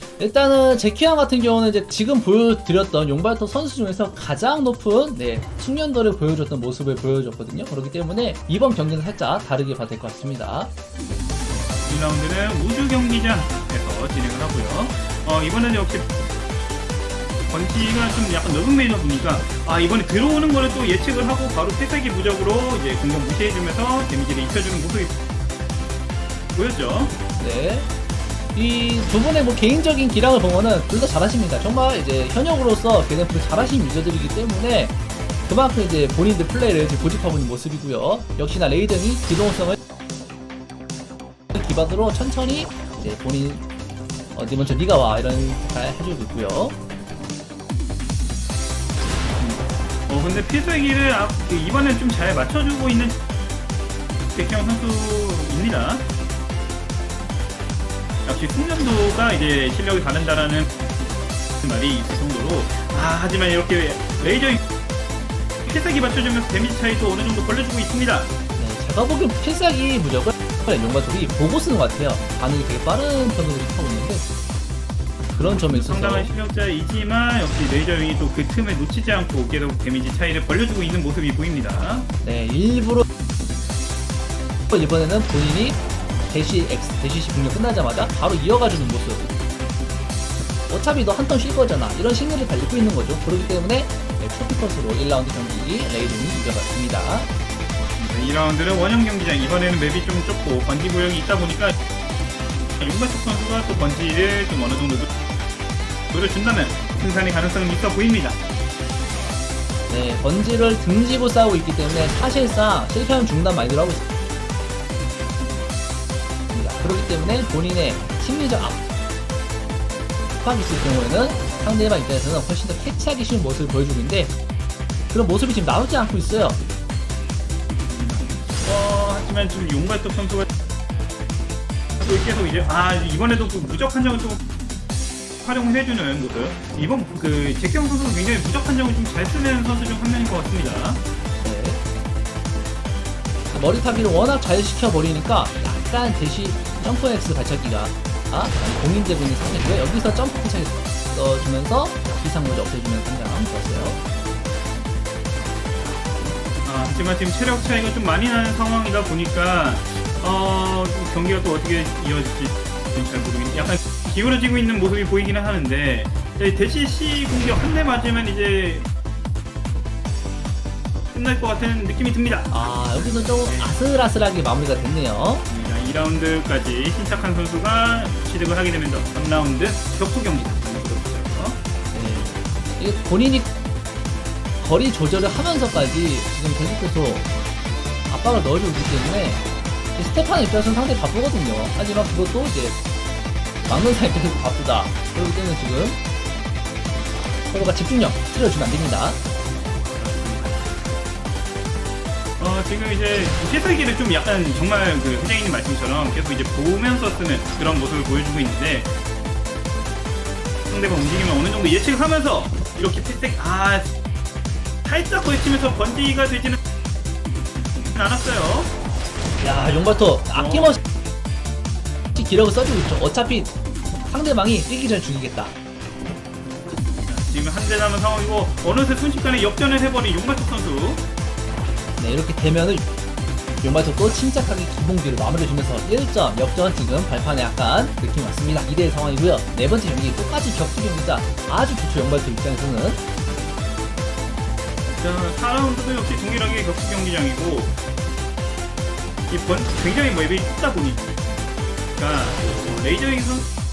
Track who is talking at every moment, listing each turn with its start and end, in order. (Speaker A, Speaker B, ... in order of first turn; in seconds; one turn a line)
Speaker A: 0.2-10.7
Speaker B: 11.8-16.1
Speaker B: 17.5-25.1
Speaker B: 26.5-27.1
Speaker A: 27.4-27.9
Speaker A: 28.5-39.8
Speaker A: 41.5-43.6
Speaker A: 44.3-46.8
Speaker B: 49.4-53.2
Speaker B: 54.3-56.1
Speaker B: 58.2-60.7
Speaker B: 61.6-64.6
Speaker B: 65.6-68.3
Speaker A: 68.5-74.2
Speaker B: 75.3-82.1
Speaker A: 75.4-76.3
Speaker A: 82.2-83.0
Speaker A: 84.7-89.3
Speaker A: 90.7-97.3
Speaker B: 98.0-101.7
Speaker B: 102.8-105.1
Speaker B: 106.1-108.4
Speaker A: 109.9-114.0
Speaker A: 116.5-118.8
Speaker A: 120.3-124.3
Speaker A: 125.1-126.6
Speaker B: 127.9-130.5
Speaker B: 132.0-134.4
Speaker B: 135.4-141.0
Speaker A: 141.4-141.8
Speaker A: 143.5-154.0
Speaker B: 156.6-168.9
Speaker B: 171.1-173.8
Speaker A: 172.5-175.4
Speaker B: 175.5-181.6
Speaker A: 181.9-183.5
Speaker A: 184.6-187.3
Speaker A: 188.1-192.8
Speaker A: 193.7-196.0
Speaker A: 197.5-199.2
Speaker B: 199.9-200.7
Speaker B: 202.4-208.9
Speaker B: 210.7-213.9
Speaker B: 214.8-216.6
Speaker B: 217.9-218.7
Speaker A: 219.4-220.8
Speaker B: 220.3-220.8
Speaker A: 222.1-223.5
Speaker A: 224.0-225.5
Speaker B: 227.1-231.1
Speaker A: 232.0-232.8
Speaker A: 233.6-243.0
Speaker B: 245.0-247.8
Speaker B: 249.3-251.1
Speaker B: 252.0-253.5